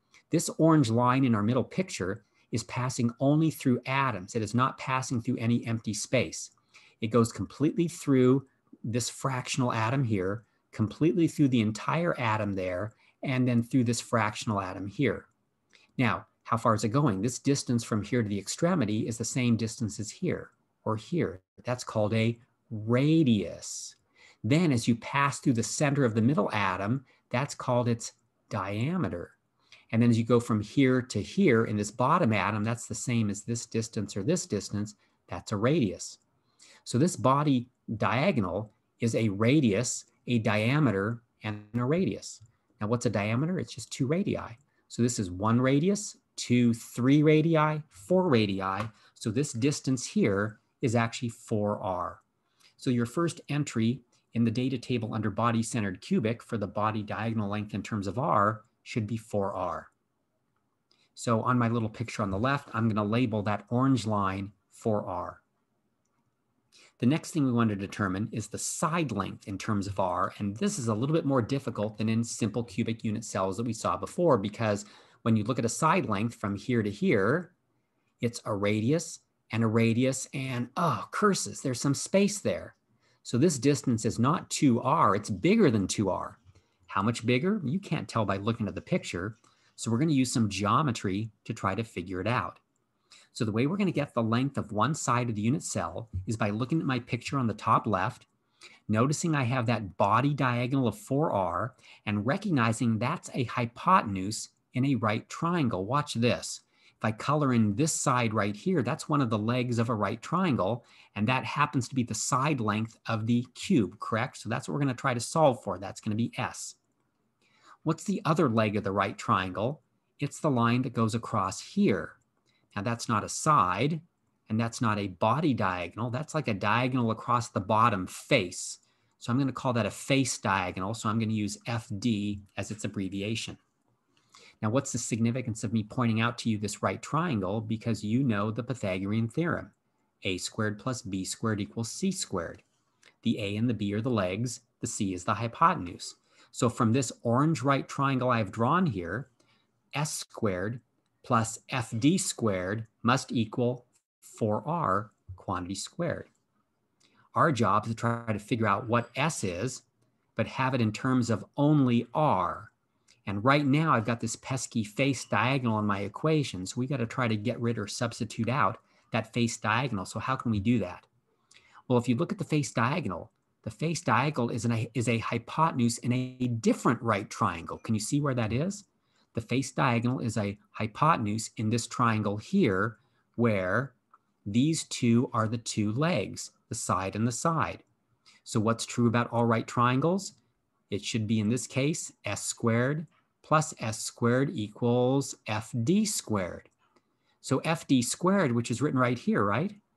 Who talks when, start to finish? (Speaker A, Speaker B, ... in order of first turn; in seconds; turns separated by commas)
Speaker A: 0.3-15.3, Speaker A: 16.0-29.4, Speaker A: 29.9-36.2, Speaker A: 36.8-52.2, Speaker A: 52.8-59.9, Speaker A: 61.1-65.4, Speaker A: 67.0-77.5, Speaker A: 78.2-92.6, Speaker A: 93.3-98.3, Speaker A: 98.9-116.8, Speaker A: 117.8-122.2, Speaker A: 122.7-133.6, Speaker A: 134.6-139.7, Speaker A: 140.2-142.6, Speaker A: 143.2-149.3, Speaker A: 149.9-156.3, Speaker A: 157.3-159.8, Speaker A: 160.4-162.7, Speaker A: 163.3-171.1, Speaker A: 171.9-187.8, Speaker A: 188.4-190.4, Speaker A: 190.9-196.7, Speaker A: 197.4-199.8